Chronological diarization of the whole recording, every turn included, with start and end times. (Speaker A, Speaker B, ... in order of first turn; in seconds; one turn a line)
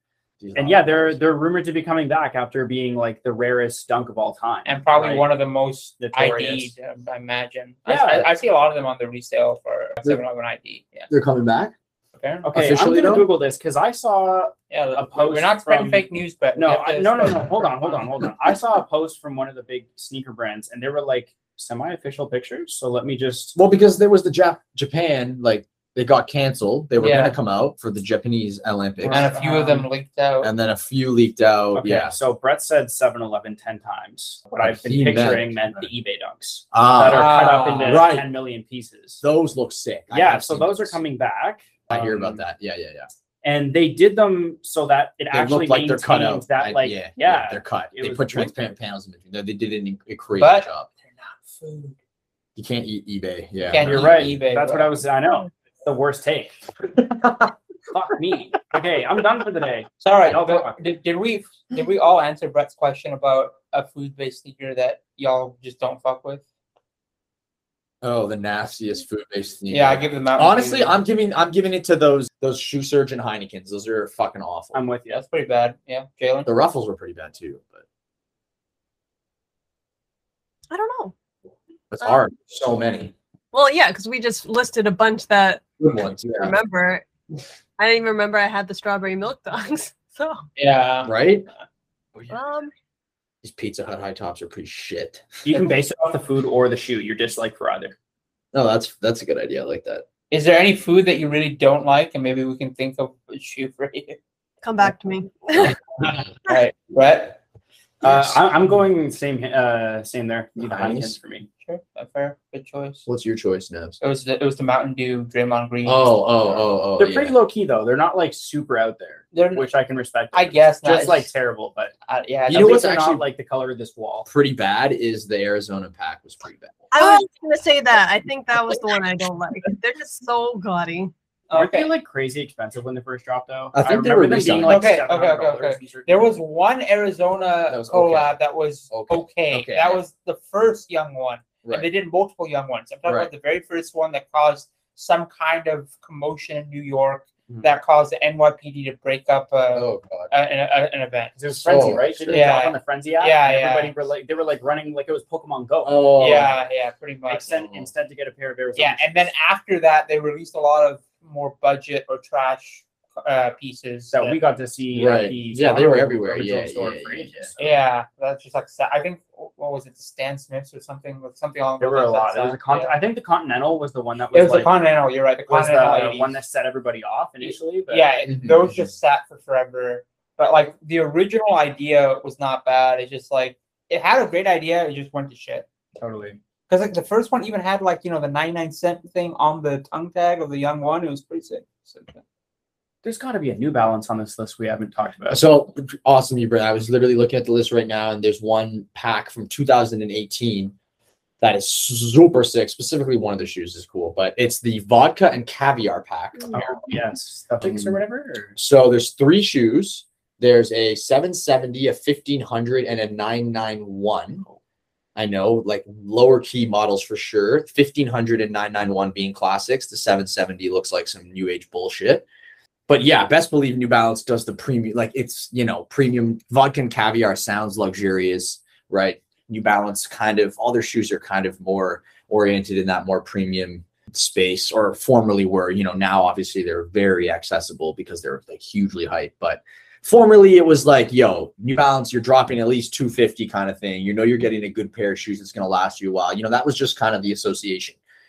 Speaker A: 0.4-1.2
Speaker B: 0.6-5.2
Speaker C: 4.7-11.1
Speaker B: 6.0-6.7
Speaker B: 7.9-8.3
Speaker A: 11.1-11.7
Speaker C: 12.2-12.5
Speaker B: 12.4-23.6
Speaker A: 12.5-13.3
Speaker C: 14.7-18.1
Speaker A: 23.6-29.3
Speaker C: 27.0-27.4
Speaker B: 29.0-29.9
Speaker C: 29.1-30.5
Speaker A: 30.4-32.1
Speaker B: 31.8-39.2
Speaker A: 34.6-35.6
Speaker A: 36.7-38.3
Speaker C: 37.1-38.0
Speaker A: 39.2-41.0
Speaker B: 40.1-42.4
Speaker A: 41.9-43.1
Speaker B: 43.4-48.6
Speaker A: 45.3-50.9
Speaker C: 50.4-52.0
Speaker A: 52.6-54.3
Speaker C: 53.7-54.9
Speaker B: 53.8-56.6
Speaker A: 57.1-57.5
Speaker B: 57.9-60.8
Speaker C: 60.0-66.5
Speaker A: 68.0-74.8
Speaker C: 69.7-71.0
Speaker B: 74.7-75.2
Speaker C: 75.1-76.5
Speaker A: 76.5-77.8
Speaker D: 80.7-81.1
Speaker A: 81.9-83.1
Speaker D: 83.5-85.6
Speaker A: 85.8-86.6
Speaker D: 86.4-87.1
Speaker D: 87.8-90.4
Speaker C: 90.6-91.2
Speaker A: 91.0-91.5
Speaker D: 92.3-92.7
Speaker A: 93.4-95.3
Speaker B: 95.5-97.9
Speaker A: 98.5-100.0
Speaker C: 100.3-104.2
Speaker D: 104.6-105.8
Speaker C: 106.4-107.4
Speaker A: 108.0-108.4
Speaker B: 108.0-111.5
Speaker A: 110.6-111.2
Speaker C: 111.7-113.1
Speaker A: 113.1-114.0
Speaker C: 114.0-116.7
Speaker A: 115.8-117.4
Speaker B: 117.0-121.9
Speaker C: 119.3-119.7
Speaker C: 120.3-121.3
Speaker C: 122.1-122.8
Speaker A: 122.5-123.2
Speaker B: 122.5-124.3
Speaker A: 124.3-126.7
Speaker D: 126.9-131.1
Speaker C: 131.5-131.9
Speaker B: 131.5-136.3
Speaker A: 133.7-134.9
Speaker C: 134.7-151.3
Speaker A: 137.7-138.4
Speaker A: 138.9-140.0
Speaker A: 143.1-143.3
Speaker A: 149.7-150.3
Speaker B: 151.4-156.0
Speaker A: 151.6-152.4
Speaker C: 152.3-153.9
Speaker A: 155.8-156.5
Speaker C: 156.2-157.7
Speaker B: 157.3-159.3
Speaker C: 158.8-164.4
Speaker B: 164.1-167.8
Speaker A: 164.9-167.5
Speaker C: 167.6-172.9
Speaker B: 171.8-174.8
Speaker C: 174.3-176.3
Speaker B: 175.5-178.1
Speaker C: 177.4-185.7
Speaker A: 178.3-178.9
Speaker B: 186.0-186.4
Speaker C: 186.7-192.2
Speaker B: 193.0-195.4
Speaker A: 195.3-200.7
Speaker A: 201.4-206.8
Speaker B: 206.5-208.6
Speaker A: 207.6-208.0
Speaker A: 208.6-214.4
Speaker A: 215.2-222.3
Speaker A: 222.9-248.0